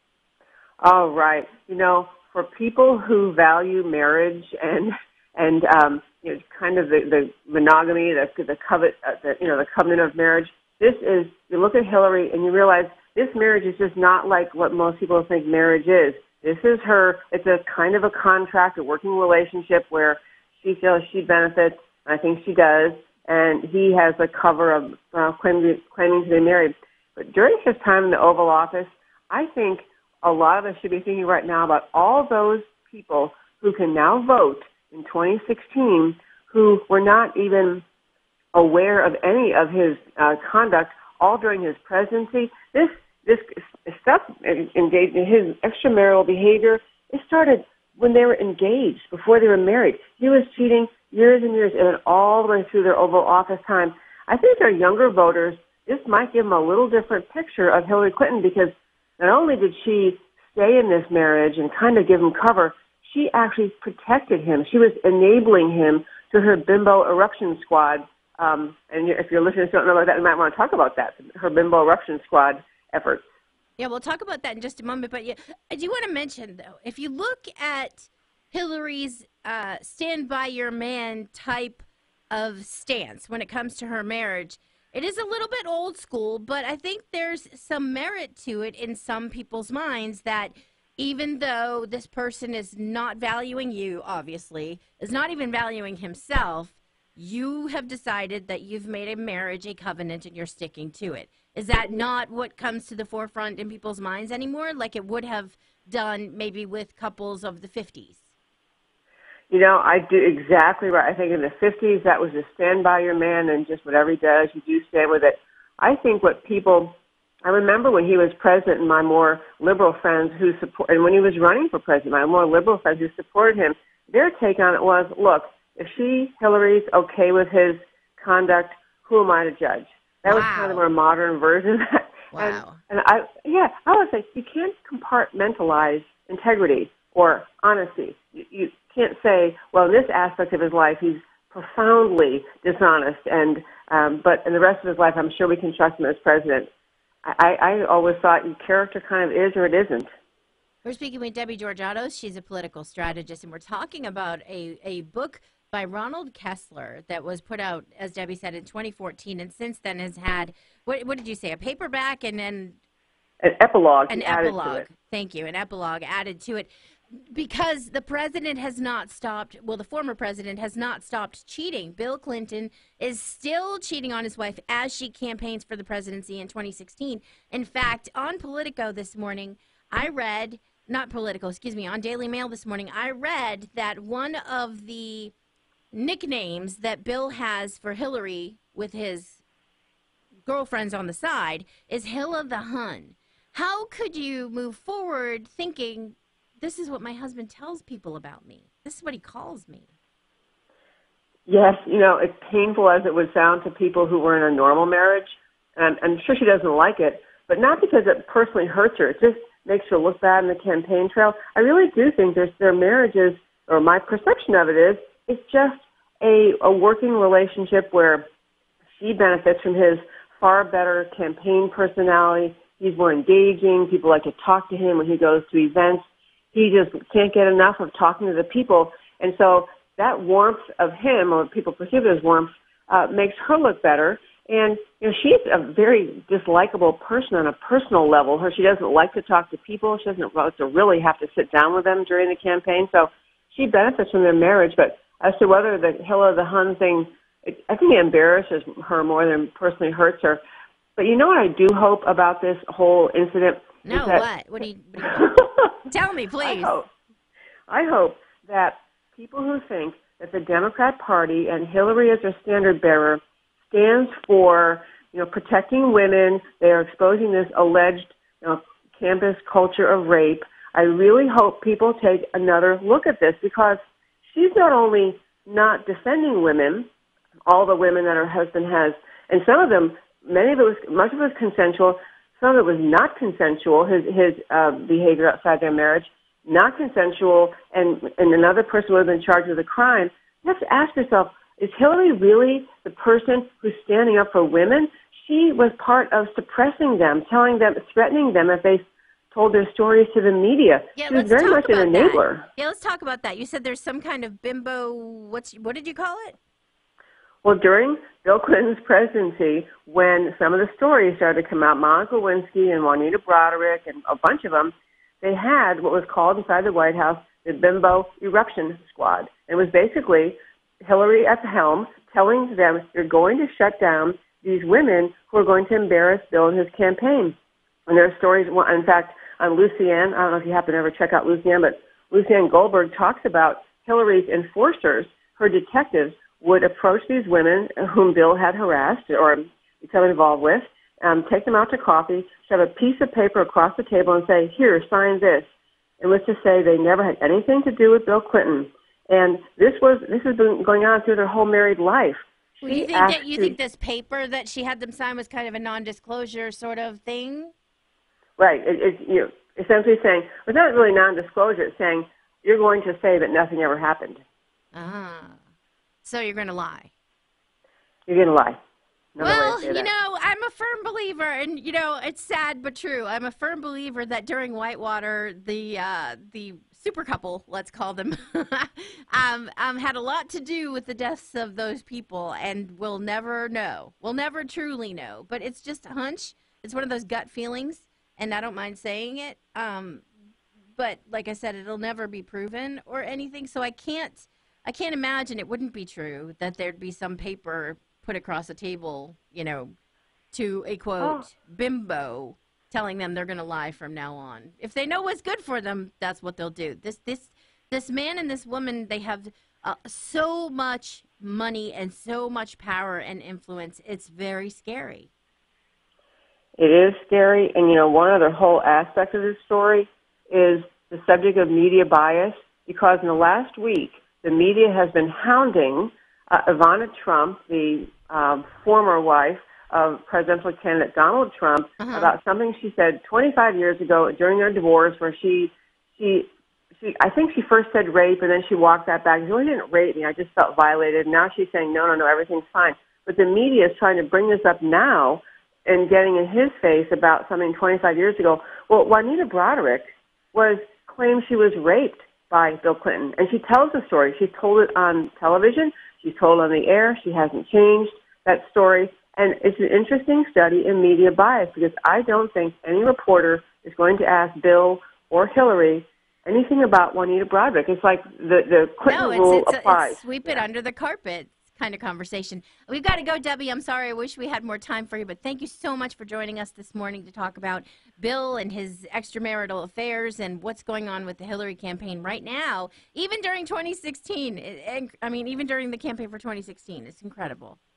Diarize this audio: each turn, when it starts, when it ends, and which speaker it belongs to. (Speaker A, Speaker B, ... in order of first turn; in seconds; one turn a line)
Speaker A: 0.8-37.8
Speaker A: 38.5-73.2
Speaker B: 73.8-108.3
Speaker A: 109.5-146.7
Speaker B: 130.3-130.8
Speaker B: 132.3-132.8
Speaker A: 147.2-150.1
Speaker B: 150.8-162.8
Speaker A: 163.4-164.9
Speaker B: 164.1-185.3
Speaker B: 185.9-189.4
Speaker B: 190.4-199.9
Speaker A: 201.5-218.3
Speaker A: 219.0-250.4
Speaker A: 250.9-254.3
Speaker B: 253.8-256.8
Speaker A: 255.1-255.7
Speaker A: 256.4-256.9
Speaker A: 257.7-276.9
Speaker A: 277.5-298.8
Speaker A: 299.3-302.4
Speaker B: 300.9-306.4
Speaker A: 307.4-327.4
Speaker A: 327.9-345.5
Speaker A: 346.0-353.6
Speaker B: 352.6-357.5
Speaker A: 358.4-364.2
Speaker B: 364.7-365.4
Speaker B: 366.0-366.9
Speaker A: 368.1-368.6
Speaker A: 369.1-369.9
Speaker B: 369.2-390.0
Speaker B: 390.8-399.7
Speaker B: 400.3-415.1
Speaker A: 401.0-401.2
Speaker A: 416.6-470.4
Speaker B: 431.8-432.1
Speaker B: 468.9-487.6